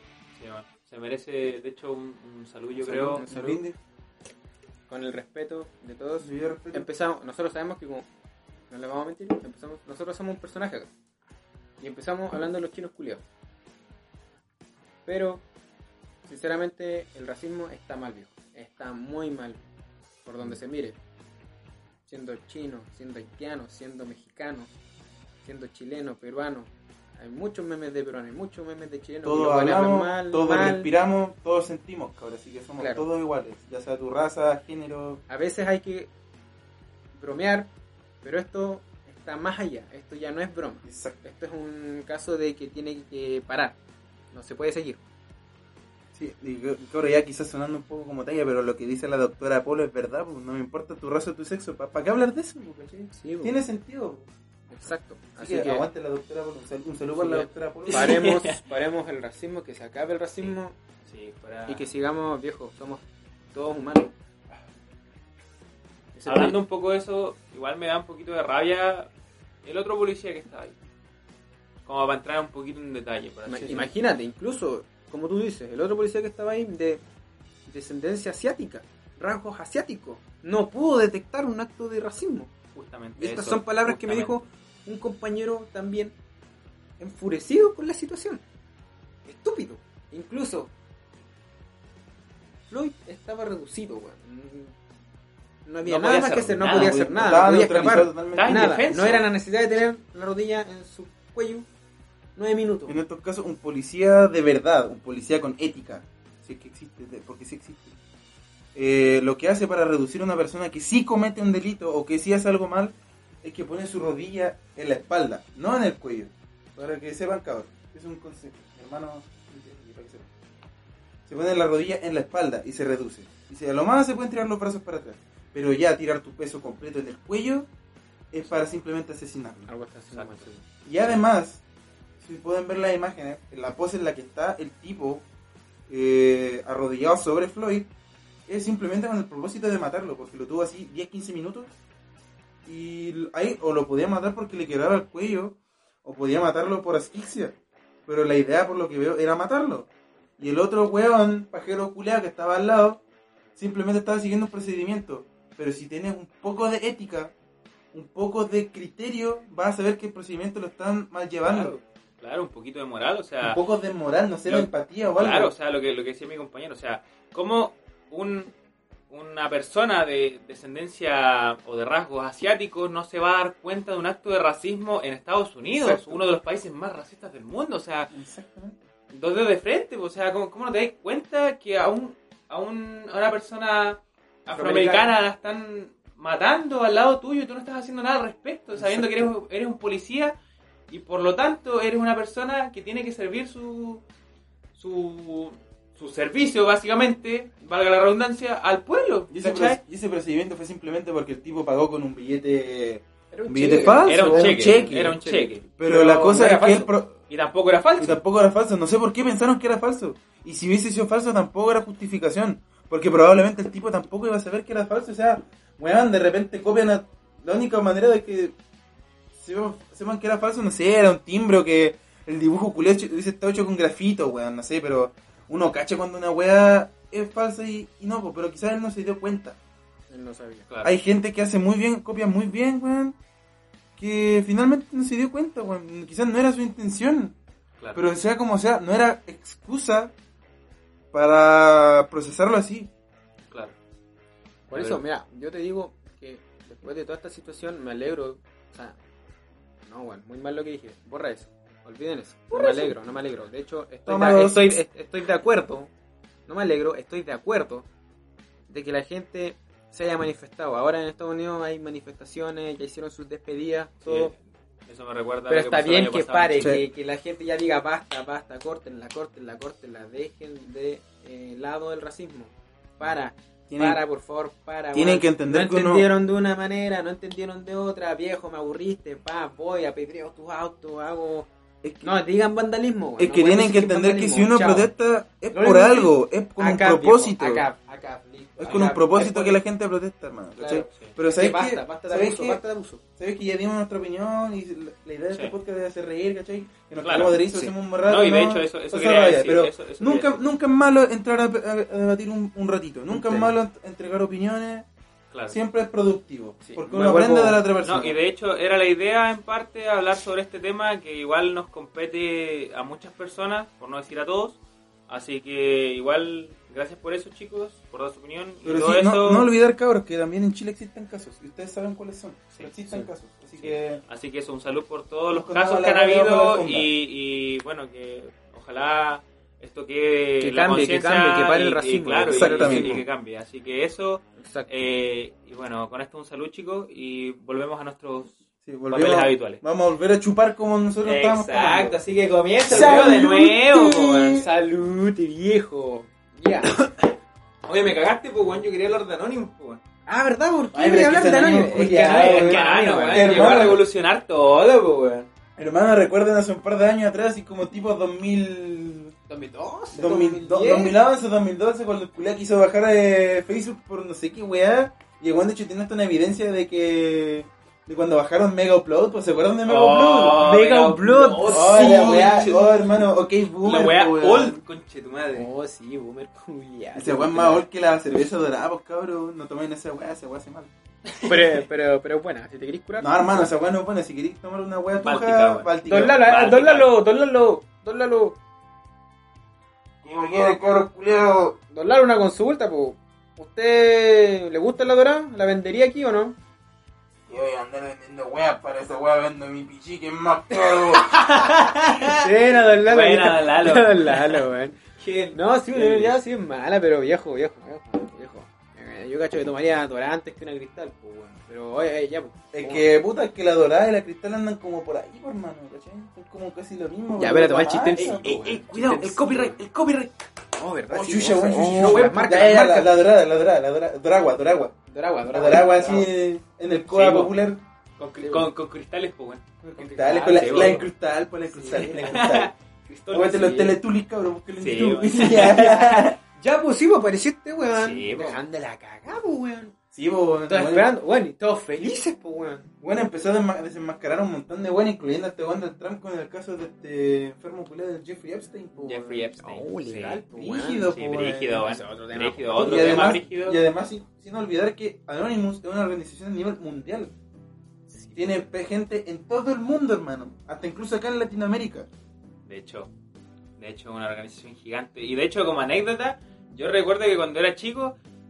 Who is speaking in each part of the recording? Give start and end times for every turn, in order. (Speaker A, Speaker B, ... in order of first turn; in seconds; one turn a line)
Speaker A: 0.3-3.2
Speaker B: 2.8-3.8
Speaker C: 2.9-3.6
Speaker C: 4.9-8.1
Speaker B: 6.2-6.8
Speaker C: 8.7-10.9
Speaker C: 11.8-13.2
Speaker C: 15.1-15.4
Speaker C: 16.2-19.6
Speaker C: 20.2-21.0
Speaker C: 22.1-24.7
Speaker C: 25.4-30.9
Speaker B: 29.2-35.2
Speaker C: 32.8-33.0
Speaker C: 35.3-36.1
Speaker C: 37.1-37.7
Speaker C: 38.2-43.8
Speaker B: 40.8-41.1
Speaker C: 44.3-45.0
Speaker B: 46.1-54.3
Speaker C: 53.1-53.6
Speaker C: 54.7-55.9
Speaker B: 55.4-58.2
Speaker C: 57.1-60.7
Speaker A: 57.9-58.6
Speaker A: 61.1-61.8
Speaker C: 61.7-64.1
Speaker C: 66.1-66.6
Speaker A: 66.2-69.1
Speaker A: 69.6-70.7
Speaker A: 71.8-73.9
Speaker C: 73.5-77.0
Speaker C: 77.7-82.5
Speaker A: 82.7-84.4
Speaker C: 83.2-86.1
Speaker C: 87.0-88.4
Speaker C: 89.2-90.7
Speaker C: 92.7-94.7
Speaker C: 95.7-101.7
Speaker A: 95.8-97.0
Speaker B: 96.7-98.8
Speaker A: 98.3-99.2
Speaker C: 102.3-103.0
Speaker B: 102.9-107.9
Speaker B: 108.7-120.3
Speaker B: 121.3-127.7
Speaker B: 128.3-129.7
Speaker C: 129.7-130.6
Speaker A: 130.1-130.4
Speaker B: 130.8-131.6
Speaker B: 132.2-135.2
Speaker B: 135.9-137.9
Speaker B: 138.5-141.8
Speaker B: 142.6-147.6
Speaker B: 148.1-153.0
Speaker B: 153.6-157.3
Speaker B: 157.9-161.7
Speaker A: 161.4-163.6
Speaker B: 163.4-165.5
Speaker A: 164.5-168.5
Speaker A: 169.1-178.1
Speaker B: 175.7-176.2
Speaker B: 178.1-178.8
Speaker A: 179.1-190.3
Speaker C: 184.5-185.1
Speaker B: 188.8-189.3
Speaker A: 190.9-194.0
Speaker A: 194.8-199.8
Speaker B: 199.3-205.2
Speaker C: 203.3-206.9
Speaker A: 203.9-205.6
Speaker B: 205.8-207.2
Speaker A: 207.3-208.2
Speaker B: 208.0-218.6
Speaker B: 219.3-229.6
Speaker C: 230.1-230.7
Speaker B: 230.8-233.2
Speaker B: 234.0-237.3
Speaker B: 237.9-240.1
Speaker B: 241.1-242.9
Speaker C: 244.7-249.0
Speaker A: 244.7-245.0
Speaker C: 249.8-255.9
Speaker B: 252.5-252.9
Speaker B: 254.1-254.8
Speaker C: 256.5-257.9
Speaker C: 258.7-264.3
Speaker A: 264.1-266.7
Speaker C: 265.5-281.5
Speaker B: 273.7-274.0
Speaker B: 274.9-276.1
Speaker B: 281.8-282.1
Speaker C: 282.0-284.9
Speaker B: 283.2-287.6
Speaker C: 285.5-289.6
Speaker B: 288.6-292.6
Speaker C: 290.6-293.0
Speaker B: 293.2-304.9
Speaker A: 297.0-297.5
Speaker C: 297.2-297.7
Speaker A: 298.0-300.4
Speaker C: 303.1-303.4
Speaker A: 305.3-305.6
Speaker B: 305.5-308.2
Speaker C: 306.6-307.5
Speaker A: 306.9-319.5
Speaker B: 318.6-324.0
Speaker A: 323.6-339.6
Speaker B: 325.3-326.9
Speaker C: 330.4-333.0
Speaker B: 332.3-333.0
Speaker C: 334.4-334.7
Speaker B: 338.6-342.0
Speaker A: 341.0-344.4
Speaker B: 342.6-344.4
Speaker C: 342.7-343.3
Speaker C: 344.4-346.7
Speaker A: 347.6-349.8
Speaker C: 350.1-353.7
Speaker B: 350.7-353.8
Speaker A: 352.0-355.3
Speaker B: 355.6-359.1
Speaker C: 359.3-361.0
Speaker B: 359.9-370.5
Speaker A: 369.6-372.8
Speaker C: 370.3-372.5
Speaker B: 371.4-374.6
Speaker A: 373.6-375.5
Speaker C: 375.3-377.6
Speaker B: 376.9-380.7
Speaker C: 381.2-383.5
Speaker B: 383.0-386.2
Speaker A: 385.0-386.9
Speaker C: 385.9-388.4
Speaker B: 390.0-391.6
Speaker C: 391.7-396.4
Speaker B: 397.3-401.1
Speaker A: 401.1-402.2
Speaker C: 402.1-404.8
Speaker A: 402.9-404.5
Speaker A: 405.0-406.2
Speaker C: 405.3-412.9
Speaker B: 412.5-418.2
Speaker C: 417.2-419.6
Speaker A: 417.9-420.1
Speaker C: 420.6-422.9
Speaker B: 420.9-424.7
Speaker A: 421.7-422.5
Speaker C: 424.9-426.1
Speaker B: 425.3-427.6
Speaker A: 426.9-427.3
Speaker A: 428.0-429.4
Speaker C: 428.2-428.5
Speaker B: 429.6-432.5
Speaker C: 429.8-430.9
Speaker A: 430.3-430.8
Speaker C: 431.5-432.3
Speaker A: 432.0-432.5
Speaker C: 432.9-433.8
Speaker B: 433.1-436.2
Speaker A: 434.6-435.9
Speaker C: 435.4-439.7
Speaker A: 437.7-438.4
Speaker B: 439.9-440.9
Speaker C: 440.5-442.7
Speaker B: 442.8-449.2
Speaker A: 448.8-450.2
Speaker C: 449.4-453.2
Speaker B: 450.3-451.6
Speaker A: 450.9-453.6
Speaker B: 452.6-457.1
Speaker C: 457.9-458.3
Speaker B: 458.1-461.9
Speaker A: 462.4-462.9
Speaker A: 463.6-467.9